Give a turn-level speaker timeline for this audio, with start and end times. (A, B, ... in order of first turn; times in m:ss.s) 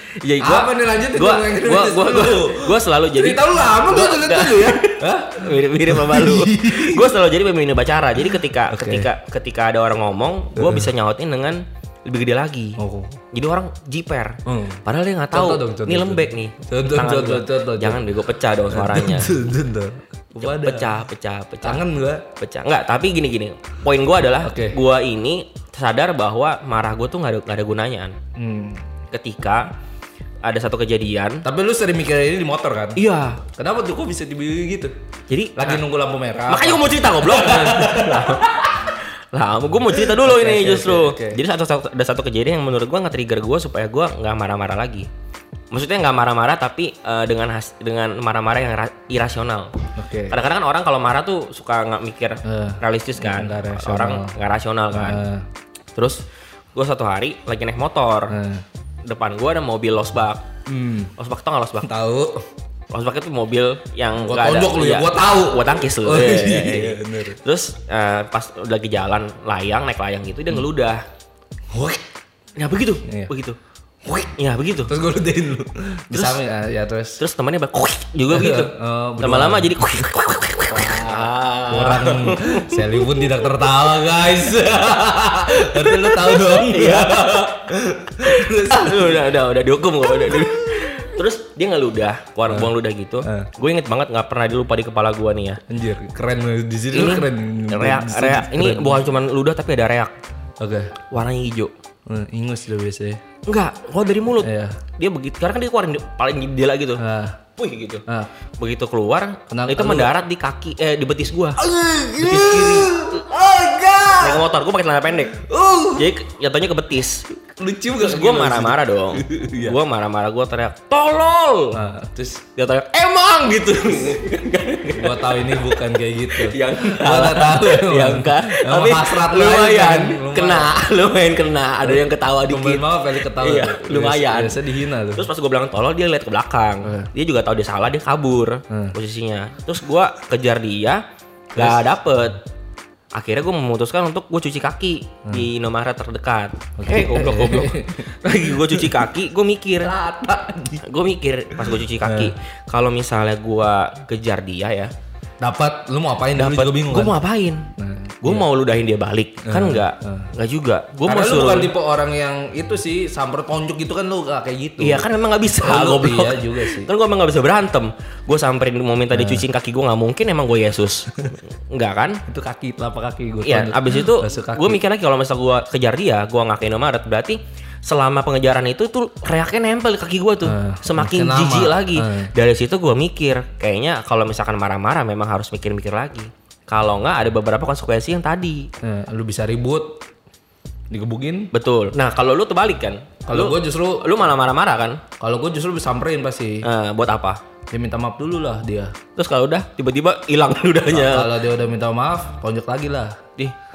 0:00.2-0:12.8 A
0:00.4-0:07.1 B
0:08.7-0:09.1 B
0:10.6-0:10.9 B
0:12.8-0:13.2 B
0:13.3-0:19.4 A
0:14.5-0:18.0 B
0:18.7-0:21.0 B
0:20.3-0:21.8 A
0:21.6-0:22.2 B
0:22.4-0:28.2 A
0:24.4-0:24.8 B
0:28.4-0:28.8 B
0:29.1-0:29.7 A
0:30.4-0:31.4 A
0:31.4-0:35.0 B
0:33.0-0:33.4 A
0:35.3-0:35.8 A
0:35.6-0:38.7 B
0:36.5-0:45.1 A
0:39.9-0:41.4 B
0:45.7-0:55.2 A
0:50.0-0:50.4 B
0:52.4-0:54.3 B
0:54.9-0:55.5 B
0:56.0-0:56.2 A
0:56.7-0:58.4 A
0:58.3-0:58.6 B
0:59.0-1:00.4 A
1:00.7-1:01.1 B
1:01.2-1:01.9 A
1:01.8-1:02.5 B
1:02.9-1:11.0 A
1:04.2-1:07.4 B
1:11.7-1:12.0 B
1:12.6-1:13.6 A
1:13.0-1:13.3 B
1:14.1-1:14.3 B
1:14.2-1:14.9 A
1:14.9-1:17.2 B
1:16.1-1:16.4 A
1:17.2-1:23.1 A
1:18.3-1:20.0 B
1:20.7-1:29.3 B
1:25.8-1:27.7 A
1:28.2-1:35.6 A
1:30.0-1:30.8 B
1:33.2-1:33.5 B
1:35.7-1:39.0 B
1:36.9-1:40.1 A
1:40.6-1:41.0 B
1:41.1-1:41.7 A
1:42.1-1:43.2 B
1:43.5-1:47.0 A
1:44.4-1:44.8 B
1:47.0-1:47.4 B
1:47.6-1:48.0 A
1:48.6-1:51.6 A
1:49.5-1:50.1 B
1:51.6-1:54.5 B
1:52.2-1:53.2 A
1:54.2-1:55.4 A
1:55.4-1:56.1 B
1:56.0-1:57.4 A
1:57.6-1:59.8 B
1:58.0-2:01.8 A
2:01.7-2:02.4 B
2:02.6-2:05.7 A
2:03.9-2:04.2 B
2:04.9-2:10.7 B
2:06.3-2:21.0 A
2:11.8-2:15.3 B
2:16.8-2:17.1 B
2:18.7-2:19.0 B
2:21.6-2:21.9 B
2:21.6-2:22.4 A
2:23.1-2:29.9 A
2:26.8-2:28.9 B
2:29.8-2:30.8 B
2:30.8-2:34.9 A
2:32.0-2:32.3 B
2:35.4-2:37.2 B
2:36.4-2:37.7 A
2:37.8-2:38.5 B
2:38.2-2:41.7 A
2:39.4-2:40.3 B
2:41.0-2:45.0 B
2:44.8-2:52.2 A
2:45.6-2:46.9 B
2:49.1-2:49.4 B
2:52.3-2:54.8 B
2:53.4-3:08.7 A
3:00.4-3:02.3 B
3:08.8-3:10.0 B
3:10.9-3:11.5 B
3:11.5-3:15.0 A
3:13.3-3:14.1 B
3:15.2-3:16.7 B
3:16.6-3:17.4 A
3:17.7-3:19.0 B
3:19.2-3:21.3 A
3:20.9-3:23.2 B